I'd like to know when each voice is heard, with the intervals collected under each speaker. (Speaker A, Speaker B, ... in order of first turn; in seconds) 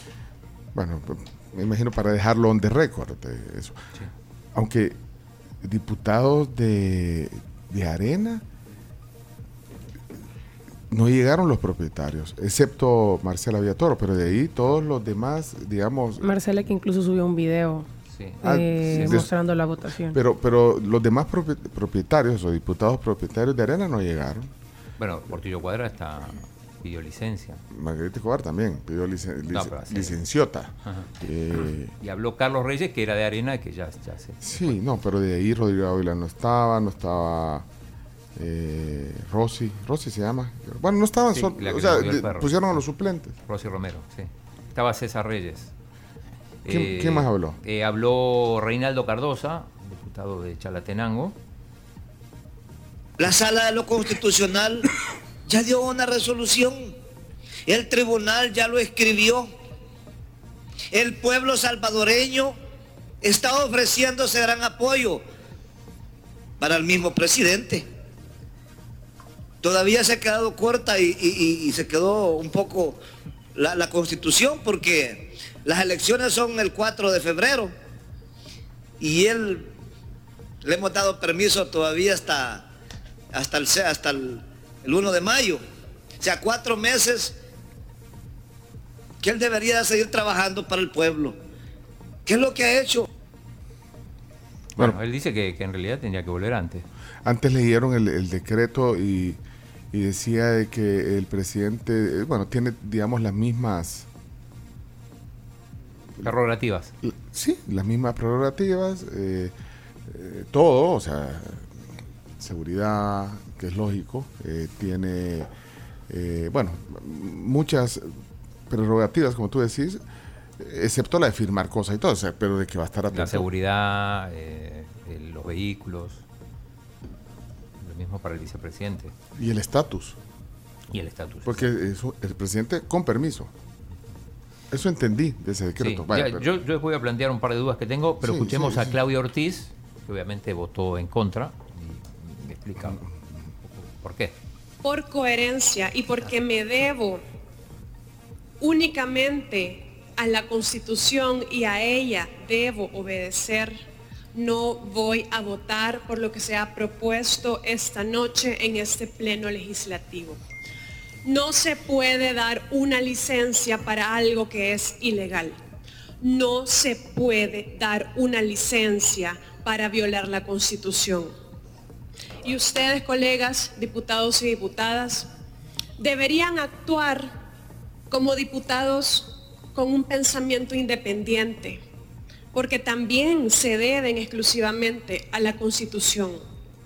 Speaker A: 0.7-3.8, 4.5-5.0, 5.6-8.4, 10.9-16.2, 18.4-19.3, 20.1-24.5, 27.7-31.9, 34.4-37.7, 38.4-43.4, 46.7-47.6, 97.2-99.4, 99.9-104.1, 107.0-109.5, 110.1-111.7, 112.4-115.5, 116.1-118.1, 118.7-120.0, 120.6-123.5, 129.4-130.2, 131.4-133.5, 134.7-136.5, 138.2-139.0
Speaker B: 16.2-17.9, 18.4-20.2
Speaker C: 18.1-19.2, 25.0-27.6, 29.5-30.2, 32.0-34.8, 41.3-42.8, 43.5-45.7, 46.6-51.4, 94.8-96.8, 106.2-106.9, 123.1-126.2, 127.8-129.1, 130.9-131.7, 135.8-143.0, 143.6-144.3
Speaker D: 53.2-54.9, 55.5-57.0, 57.7-59.5, 60.9-62.6, 63.2-65.2, 66.6-67.9, 69.6-73.0, 73.6-77.7, 79.0-79.7, 80.6-82.7, 83.3-85.6, 86.2-87.4, 89.2-91.3, 92.3-93.1
Speaker E: 144.8-147.2, 148.6-153.8, 154.3-160.4, 161.2-165.6, 166.2-171.3, 172.4-175.3, 176.0-177.3, 178.1-181.8, 182.5-186.4